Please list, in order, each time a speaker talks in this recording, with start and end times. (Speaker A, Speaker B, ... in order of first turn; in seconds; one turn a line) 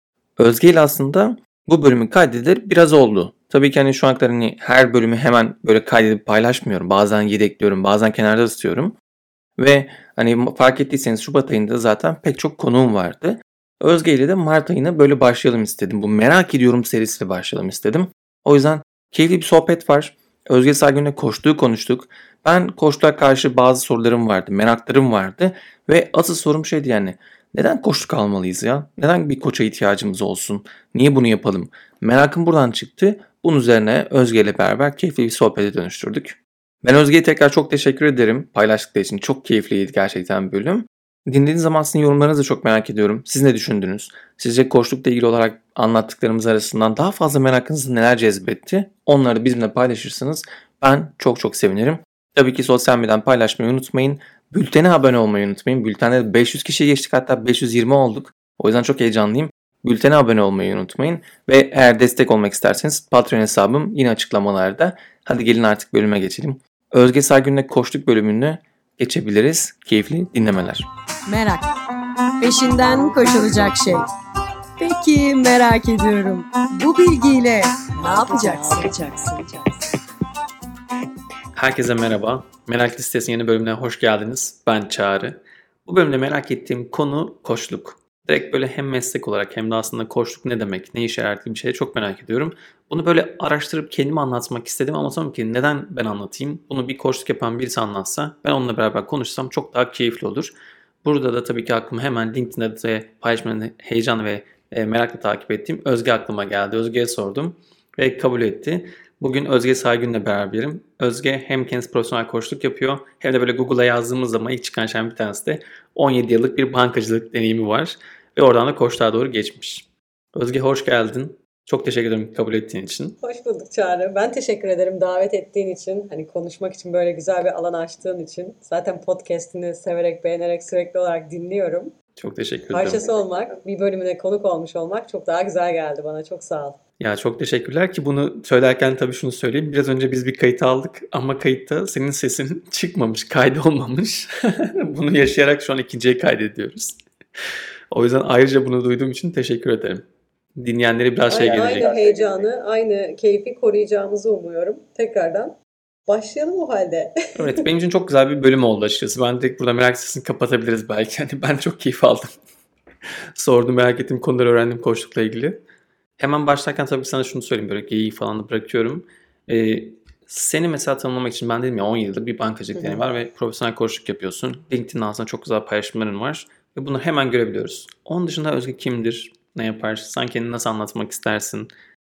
Speaker A: 0.4-8.9
Speaker A: 9.6-70.8
Speaker B: 71.3-71.6
Speaker C: 72.4-74.0
Speaker B: 72.4-74.0
Speaker C: 74.8-76.3
Speaker B: 74.8-79.6
Speaker C: 77.0-79.2
Speaker A: 81.5-100.5
Speaker A: 101.0-123.2
Speaker C: 123.2-131.9
Speaker A: 132.2-133.0
Speaker C: 132.7-136.8
Speaker A: 137.0-147.0
Speaker A: 147.9-150.0
Speaker A: 150.6-152.0
Speaker C: 151.3-155.6
Speaker C: 156.1-157.6
Speaker A: 157.3-162.3
Speaker A: 163.3-165.6
Speaker A: 166.2-181.7
Speaker C: 172.8-173.0